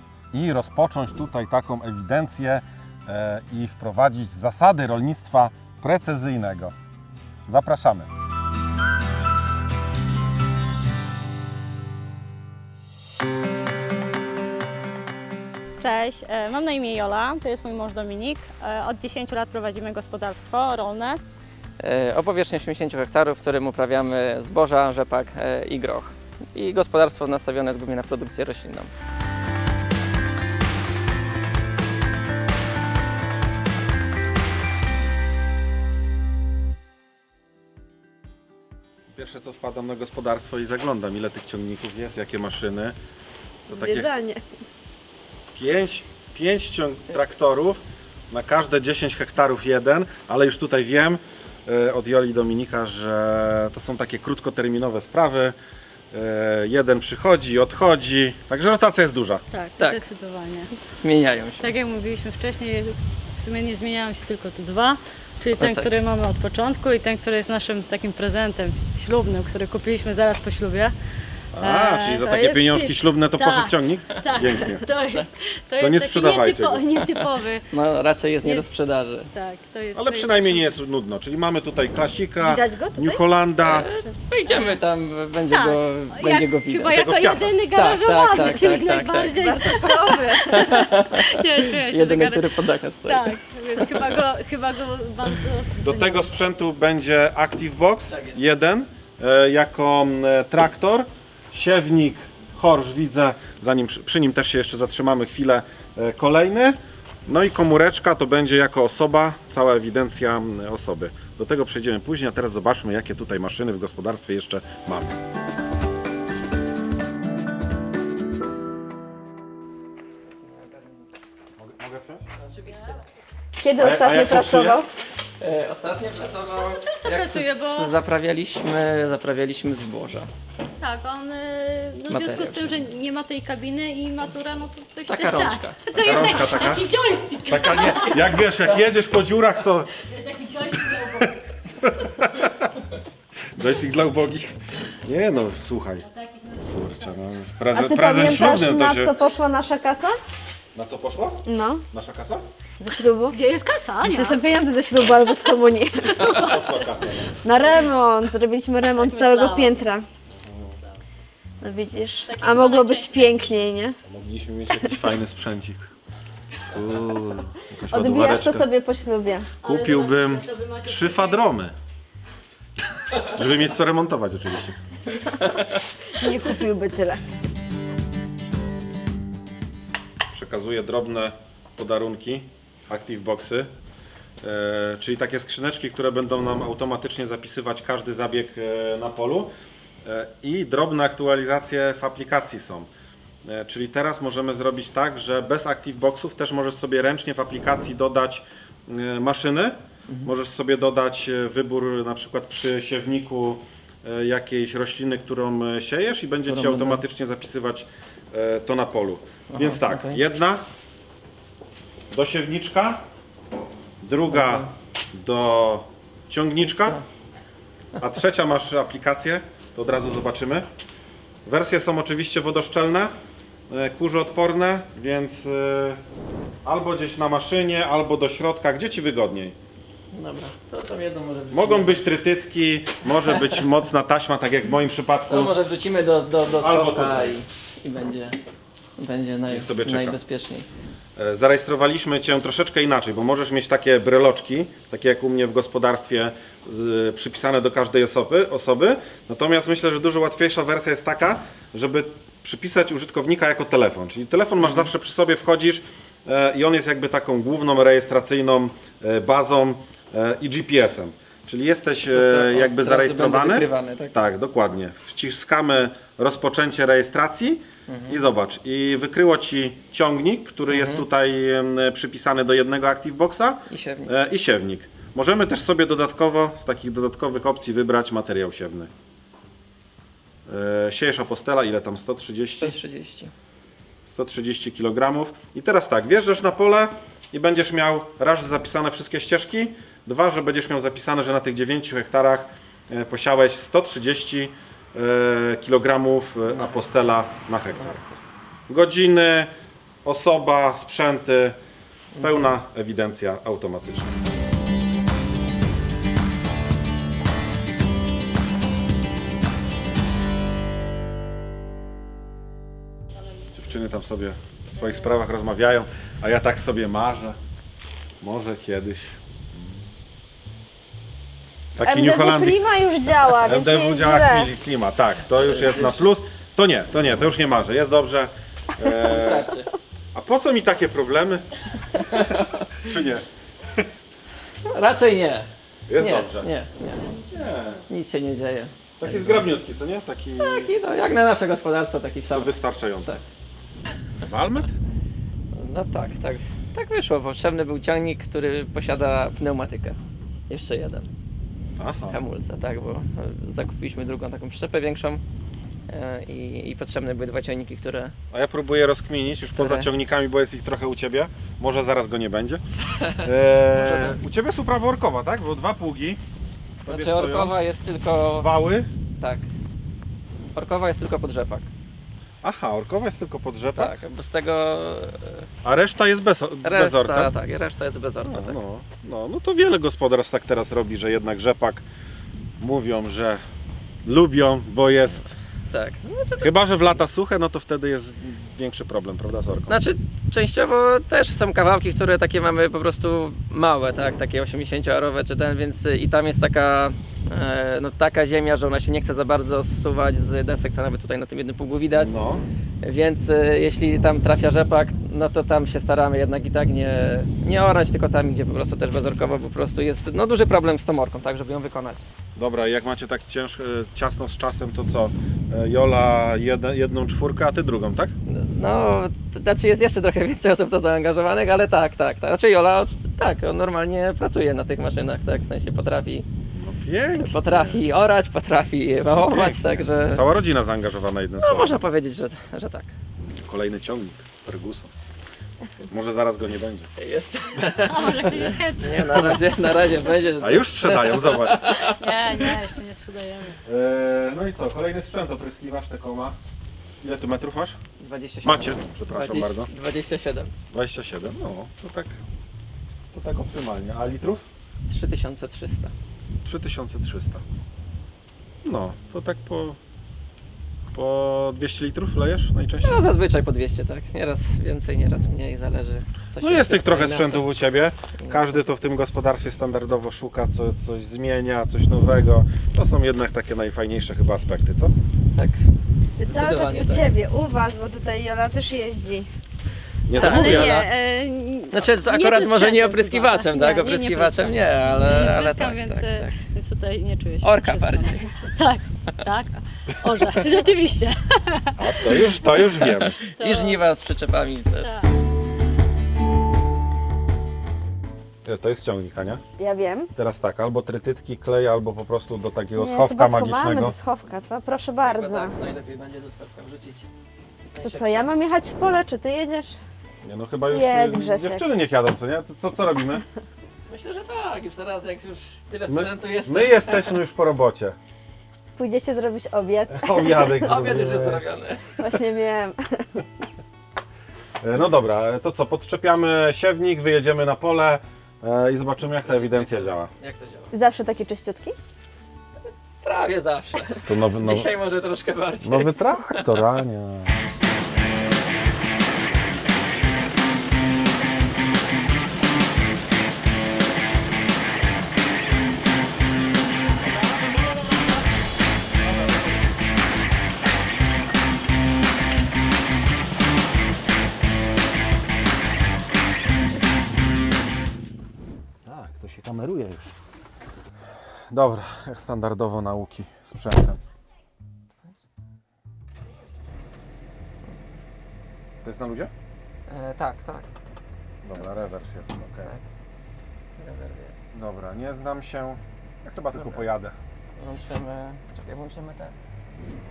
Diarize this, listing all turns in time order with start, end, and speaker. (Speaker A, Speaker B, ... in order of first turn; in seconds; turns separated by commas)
Speaker A: 0.3-6.7, Speaker A: 7.5-8.1, Speaker B: 15.8-21.2, Speaker C: 21.8-28.9, Speaker A: 39.1-43.0, Speaker D: 43.7-44.4, Speaker A: 43.7-44.1, Speaker A: 45.5-47.8, Speaker A: 48.3-55.5, Speaker A: 56.1-59.4, Speaker B: 59.5-60.7, Speaker C: 60.7-61.7, Speaker B: 61.6-70.9, Speaker C: 65.6-65.9, Speaker A: 71.5-74.8, Speaker B: 71.6-72.2, Speaker D: 72.2-73.0, Speaker B: 73.3-77.7, Speaker A: 75.8-77.0, Speaker C: 77.7-79.3, Speaker B: 79.3-80.7, Speaker A: 79.9-83.9, Speaker D: 82.4-83.2, Speaker C: 83.6-87.0, Speaker B: 84.5-84.8, Speaker B: 85.5-92.5, Speaker A: 86.9-87.6, Speaker C: 87.7-94.1, Speaker D: 89.3-90.8, Speaker B: 93.0-96.3, Speaker A: 95.8-115.2, Speaker C: 98.1-98.4, Speaker C: 120.3-120.9, Speaker A: 121.6-122.2, Speaker C: 122.4-123.0, Speaker D: 123.6-124.9, Speaker A: 123.8-124.8, Speaker C: 125.4-130.3, Speaker B: 126.5-127.9, Speaker B: 130.8-138.5, Speaker C: 132.1-132.8, Speaker C: 135.1-135.9, Speaker A: 135.9-136.9, Speaker A: 137.4-139.9, Speaker B: 140.0-141.4, Speaker A: 141.2-142.6, Speaker A: 143.5-146.1, Speaker B: 146.0-147.1, Speaker A: 146.6-149.1, Speaker D: 147.7-150.1, Speaker A: 150.7-152.4, Speaker D: 151.4-151.8, Speaker D: 152.8-153.4, Speaker B: 153.3-154.4, Speaker D: 154.0-156.3, Speaker B: 156.1-156.7, Speaker A: 156.2-157.7, Speaker D: 157.4-160.0, Speaker B: 159.0-159.8, Speaker A: 160.4-160.7, Speaker D: 161.6-164.0, Speaker B: 162.2-163.5, Speaker A: 164.1-165.9, Speaker A: 166.7-168.7, Speaker D: 167.9-169.5, Speaker B: 169.6-171.5, Speaker A: 169.6-171.7, Speaker A: 173.1-174.8, Speaker D: 176.1-177.2, Speaker A: 180.3-183.7, Speaker A: 184.4-189.5, Speaker A: 190.0-192.9, Speaker A: 193.4-210.6, Speaker C: 206.4-207.0, Speaker C: 209.5-210.2, Speaker A: 212.1-213.0, Speaker A: 214.0-217.0, Speaker C: 214.3-214.7, Speaker C: 216.7-217.0, Speaker A: 218.0-220.6, Speaker A: 221.4-223.1, Speaker A: 223.7-226.0, Speaker A: 226.6-229.6, Speaker C: 230.1-232.1, Speaker A: 231.5-235.5, Speaker C: 235.3-238.4, Speaker A: 236.6-237.3, Speaker C: 239.0-240.7, Speaker A: 239.5-240.2, Speaker A: 241.2-278.9, Speaker C: 254.6-254.9, Speaker C: 262.1-264.2, Speaker C: 267.9-268.2, Speaker C: 270.7-271.0, Speaker C: 273.7-274.1, Speaker A: 280.5-282.8, Speaker C: 282.6-283.3, Speaker A: 284.1-298.2, Speaker A: 298.7-299.5, Speaker A: 300.0-301.6, Speaker C: 302.1-302.5, Speaker A: 302.2-304.1, Speaker A: 313.5-317.4, Speaker A: 318.2-319.8, Speaker A: 321.8-322.6, Speaker D: 321.8-324.5, Speaker A: 323.4-329.5, Speaker C: 325.4-326.1, Speaker C: 329.1-329.7, Speaker A: 330.1-331.4, Speaker C: 331.9-332.7, Speaker A: 332.9-333.2, Speaker C: 334.7-337.1, Speaker A: 335.9-336.5, Speaker A: 337.1-337.8, Speaker C: 337.9-339.5, Speaker A: 339.0-340.7, Speaker C: 340.4-343.2, Speaker A: 342.3-343.2, Speaker A: 344.2-344.7, Speaker C: 345.5-350.0, Speaker C: 350.5-351.1, Speaker A: 351.8-352.1, Speaker C: 352.1-355.2, Speaker C: 355.9-358.1, Speaker A: 358.3-362.6, Speaker C: 359.5-359.9, Speaker A: 363.2-366.2, Speaker C: 363.7-364.2, Speaker A: 366.9-367.6, Speaker C: 366.9-368.5, Speaker A: 368.4-368.9, Speaker C: 369.2-369.4, Speaker C: 370.5-371.7, Speaker A: 372.4-373.9, Speaker C: 373.7-375.5, Speaker A: 375.6-377.3, Speaker C: 376.6-378.6, Speaker A: 378.2-381.8, Speaker A: 382.6-383.4, Speaker A: 384.0-385.3, Speaker C: 385.7-386.5, Speaker A: 386.4-389.7, Speaker C: 389.7-402.1, Speaker A: 401.9-402.4, Speaker C: 402.8-412.0, Speaker A: 412.4-418.1, Speaker C: 418.3-426.2, Speaker A: 426.5-427.8, Speaker C: 427.2-430.3, Speaker A: 429.1-431.8, Speaker C: 431.4-432.9, Speaker A: 433.4-434.9, Speaker A: 435.9-436.9, Speaker C: 437.0-442.6, Speaker B: 437.8-439.4, Speaker A: 440.4-441.8, Speaker B: 441.9-443.6, Speaker A: 443.6-446.4, Speaker A: 447.0-447.8, Speaker C: 448.0-450.5, Speaker A: 448.4-449.7, Speaker A: 450.7-452.1, Speaker A: 453.1-454.4, Speaker C: 454.9-455.9, Speaker A: 456.4-457.4, Speaker A: 458.6-459.8, Speaker A: 460.9-463.1, Speaker C: 462.8-467.5, Speaker A: 466.4-474.9, Speaker C: 468.2-468.4, Speaker C: 475.3-475.6, Speaker D: 476.2-479.3, Speaker C: 476.2-477.1, Speaker A: 480.1-480.8, Speaker C: 480.1-480.9, Speaker B: 480.1-493.8, Speaker C: 481.7-486.4, Speaker C: 487.4-488.5, Speaker A: 491.8-493.2, Speaker C: 493.2-494.9, Speaker B: 494.8-495.1, Speaker A: 498.4-499.4, Speaker D: 499.6-500.1, Speaker A: 500.1-504.0, Speaker D: 502.8-505.6, Speaker C: 505.0-507.1, Speaker C: 507.7-508.3, Speaker D: 507.8-509.8, Speaker A: 510.2-513.2, Speaker D: 510.7-511.6, Speaker C: 513.9-517.2, Speaker A: 515.9-518.0, Speaker D: 518.8-520.6, Speaker A: 519.9-521.4, Speaker C: 520.5-522.0, Speaker D: 522.0-523.2, Speaker A: 524.6-530.1, Speaker C: 529.2-530.7, Speaker D: 530.7-531.8, Speaker C: 533.0-536.6, Speaker A: 534.0-534.7, Speaker A: 535.6-537.3, Speaker A: 558.8-560.1, Speaker A: 561.5-564.0, Speaker A: 568.8-569.3, Speaker C: 569.9-570.7, Speaker A: 571.4-572.7, Speaker C: 573.8-574.4, Speaker A: 574.5-577.1, Speaker C: 576.5-576.9, Speaker C: 577.6-579.3